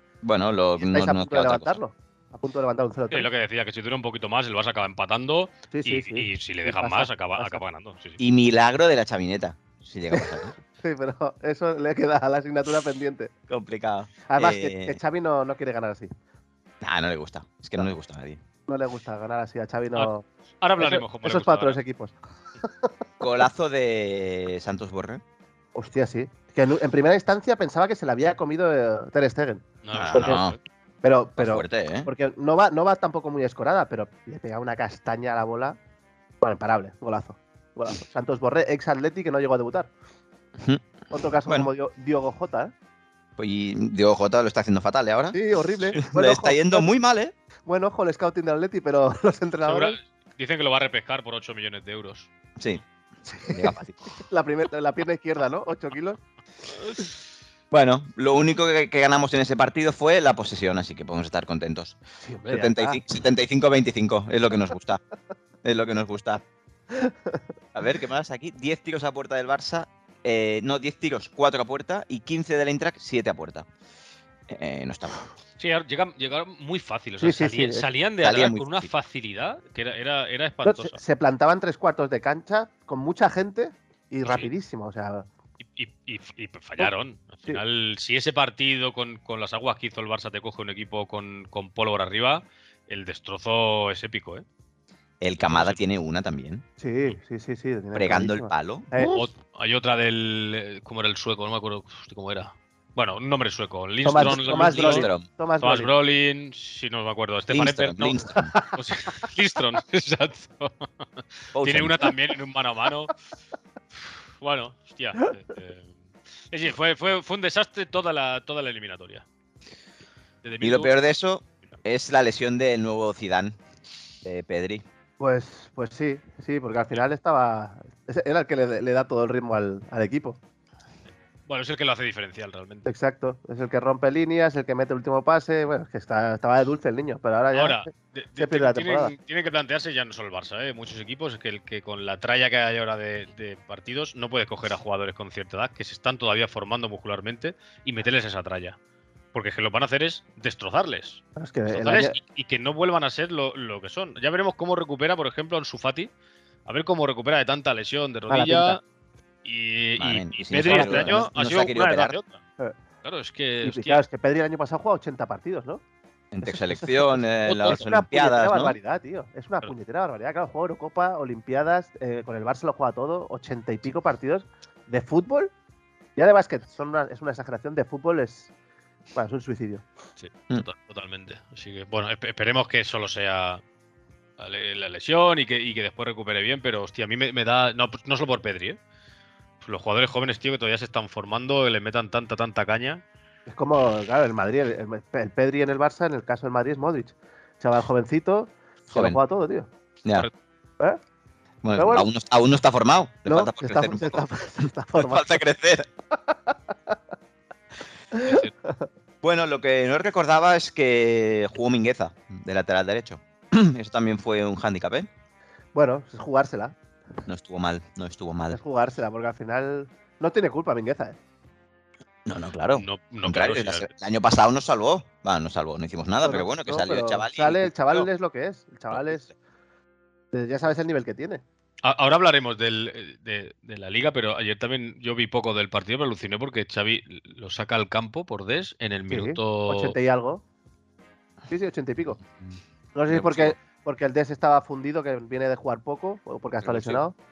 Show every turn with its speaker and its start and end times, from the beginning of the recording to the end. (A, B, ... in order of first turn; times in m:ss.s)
0:00.2-0:01.8 A
0:00.8-0:03.3 B
0:03.1-0:08.2 C
0:05.7-0:07.6 B
0:08.2-0:10.5 A
0:10.1-0:13.3 B
0:13.5-0:15.0 A
0:14.3-0:16.1 B
0:16.8-0:18.4 A
0:18.7-0:20.2 B
0:19.9-0:21.8 C
0:20.8-0:22.9 B
0:23.2-0:25.2 A
0:25.7-0:30.4 B
0:29.8-0:30.6 C
0:29.9-0:30.6 A
0:31.0-0:35.8 B
0:31.4-0:32.1 A
0:36.4-0:39.9 B
0:40.6-0:40.8 A
0:41.1-0:42.7 B
0:43.4-0:45.4 A
0:45.3-0:46.9 B
0:45.9-0:47.3 A
0:47.7-0:50.0 B
0:49.6-0:52.3 C
0:53.3-0:56.2 B
0:53.5-0:53.9 A
0:57.7-1:02.0 A
1:02.2-1:03.0 B
1:02.5-1:05.0 A
1:05.6-1:06.4 A
1:06.9-1:07.4 B
1:07.7-1:13.7 A
1:14.5-1:15.2 A
1:15.6-1:21.0 C
1:17.2-1:17.8 B
1:18.2-1:18.9 A
1:20.6-1:25.3 B
1:24.2-1:24.5 C
1:25.6-1:34.4 C
1:35.2-1:36.6 A
1:35.4-1:35.8 C
1:36.8-1:39.3 B
1:37.9-1:38.9 A
1:39.0-1:50.9 C
1:44.0-1:45.9 B
1:44.2-1:45.2 A
1:47.5-1:48.5 A
1:48.4-1:48.7 B
1:51.5-1:53.1 C
1:51.5-1:52.0 A
1:54.4-1:55.9 C
1:56.5-1:59.2 C
2:00.4-2:01.0 C
2:00.6-2:03.6 A
2:04.2-2:04.8 A
2:05.2-2:10.4 B
2:11.5-2:12.9 C
2:12.8-2:19.1 B
2:17.5-2:28.8 C
2:29.3-2:36.1 C
2:31.4-2:32.2 B
2:36.6-2:38.8 C
2:38.3-2:38.8 B
2:39.4-2:42.4 C
2:40.0-2:42.2 A
2:40.6-2:41.3 B
2:43.0-2:44.0 C
2:43.6-2:45.8 B
2:46.3-2:48.8 A
2:46.4-2:55.5 B
2:47.5-2:47.8 C
2:56.2-2:58.5 B
2:59.1-2:59.8 B
3:00.2-3:03.6 C
3:04.4-3:08.8 C
3:09.6-3:13.0 C
3:13.5-3:19.7 B
3:18.9-3:19.2 A
3:21.6-3:24.3 A
3:21.7-3:22.1 B
3:23.2-3:25.4 B
3:25.0-3:25.9 A
3:26.3-3:26.9 B
3:28.1-3:28.9 B
3:28.2-3:28.5 C
3:29.2-3:35.1 A
3:35.7-3:36.8 B
3:37.3-3:38.6 A
3:38.5-3:41.2 B
3:42.2-3:47.7 A
3:42.7-3:43.9 C
3:46.2-3:49.3 B
3:48.9-3:49.3 A
3:50.3-3:51.4 B
3:51.8-4:00.0 C
3:59.1-4:00.4 B
4:01.5-4:02.2 B
4:02.9-4:07.1 B
4:03.1-4:03.6 A
4:06.6-4:07.0 A